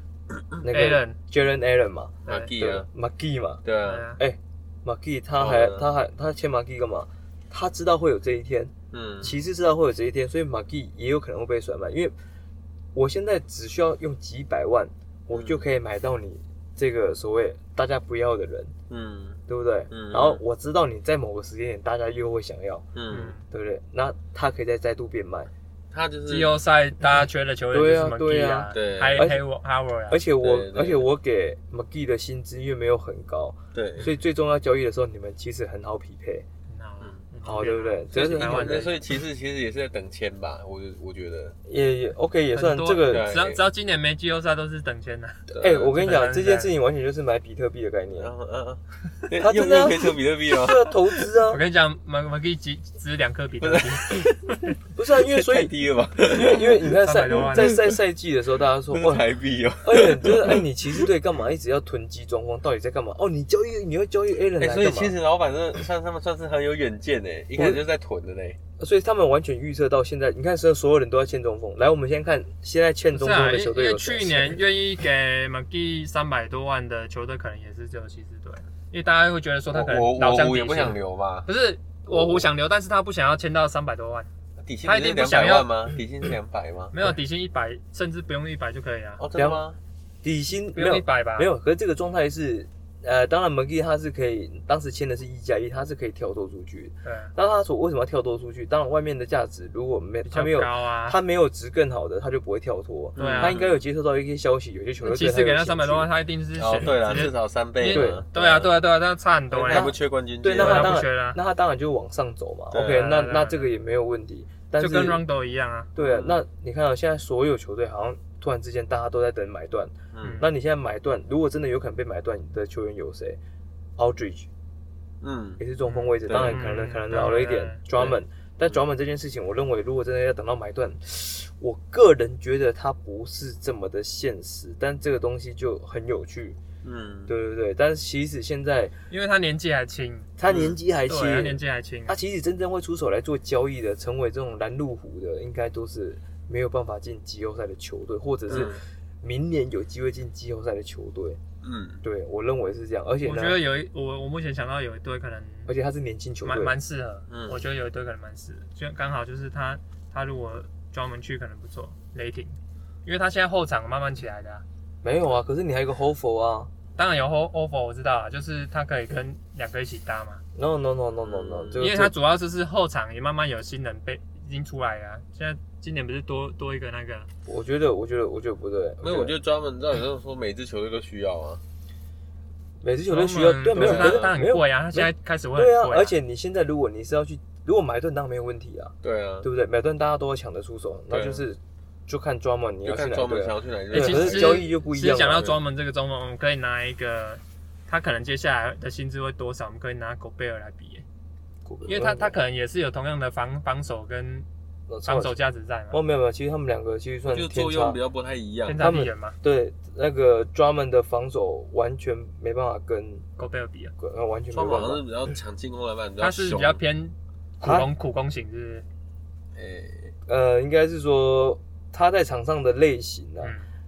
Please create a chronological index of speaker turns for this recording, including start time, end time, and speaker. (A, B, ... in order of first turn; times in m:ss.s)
0:00.6-0:03.6 A
0:00.7-0:01.2 B
0:02.3-0:02.9 C
0:03.6-0:04.1 C
0:03.8-0:04.2 B
0:04.2-0:12.1 A
0:05.4-0:05.9 C
0:08.9-0:09.4 C
0:12.9-0:18.7 A
0:15.3-0:15.6 C
0:18.9-0:20.4 C
0:19.5-0:22.8 A
0:23.0-0:23.3 C
0:23.1-0:23.4 B
0:23.5-0:25.5 A
0:25.9-0:26.6 C
0:26.3-0:30.2 B
0:27.7-0:29.4 A
0:28.7-0:29.2 C
0:30.1-0:36.5 A
0:30.4-0:31.1 C
0:33.7-0:34.1 C
0:36.7-0:39.0 B
0:37.4-0:38.9 A
0:38.1-0:41.6 C
0:41.7-0:43.3 A
0:42.5-0:46.7 B
0:43.1-0:43.6 C
0:45.5-0:45.9 C
0:45.6-0:48.3 A
0:48.2-0:51.2 C
0:49.4-0:51.6 A
0:51.5-0:54.2 B
0:53.6-0:57.9 C
0:55.0-0:55.7 A
0:56.3-0:59.3 A
0:57.0-0:57.8 B
0:58.9-1:01.1 C
0:59.8-1:05.2 A
1:04.6-1:08.6 C
1:07.6-1:07.8 A
1:08.8-1:14.6 A
1:13.1-1:24.3 B
1:19.7-1:21.5 C
1:24.6-1:26.9 C
1:24.8-1:25.7 B
1:26.9-1:29.2 B
1:29.2-1:29.8 C
1:29.4-1:29.6 A
1:30.2-1:46.1 A
1:30.8-1:31.5 B
1:37.0-1:37.3 B
1:40.3-1:41.2 B
1:43.2-1:43.8 C
1:43.2-1:43.6 B
1:45.0-1:49.9 B
1:46.6-1:48.7 C
1:47.9-1:48.2 A
1:49.5-1:51.0 C
1:49.7-1:55.2 A
1:50.6-1:51.4 B
1:52.7-1:53.1 C
1:52.7-1:53.7 B
1:54.8-1:55.9 B
1:56.0-2:03.4 A
1:56.0-1:56.4 C
2:00.1-2:00.4 C
2:00.2-2:00.5 B
2:04.0-2:04.5 A
2:05.2-2:05.6 C
2:05.6-2:16.6 A
2:05.9-2:07.8 B
2:06.3-2:06.6 C
2:07.9-2:08.8 C
2:16.8-2:17.3 C
2:17.3-2:19.0 A
2:19.1-2:20.3 B
2:20.4-2:31.4 A
2:20.5-2:20.8 C
2:21.1-2:22.2 B
2:28.5-2:28.8 C
2:31.6-2:32.0 C
2:32.0-2:33.6 A
2:33.2-2:35.7 B
2:35.7-2:36.8 A
2:36.4-2:44.6 B
2:37.3-2:37.6 C
2:45.0-2:46.7 A
2:47.0-2:50.4 B
2:50.6-2:52.1 A
2:51.2-2:51.9 C
2:51.8-2:57.3 B
2:57.5-2:59.3 A
2:59.0-3:01.6 C
3:02.8-3:15.6 A
3:03.1-3:06.2 B
3:03.7-3:04.4 C
3:09.0-3:09.5 C
3:11.1-3:11.4 C
3:12.8-3:14.7 C
3:13.9-3:21.0 B
3:21.6-3:22.4 A
3:21.9-3:24.5 B
3:24.9-3:25.4 A
3:25.0-3:26.0 B
3:25.9-3:28.0 A
3:27.3-3:28.8 C
3:28.6-3:29.4 B
3:28.8-3:33.2 A
3:33.4-3:33.9 B
3:34.0-3:35.0 A
3:34.5-3:36.8 C
3:36.2-3:38.8 B
3:37.6-3:37.9 A
3:39.6-3:40.1 C
3:40.3-3:43.6 A
3:43.4-3:43.7 B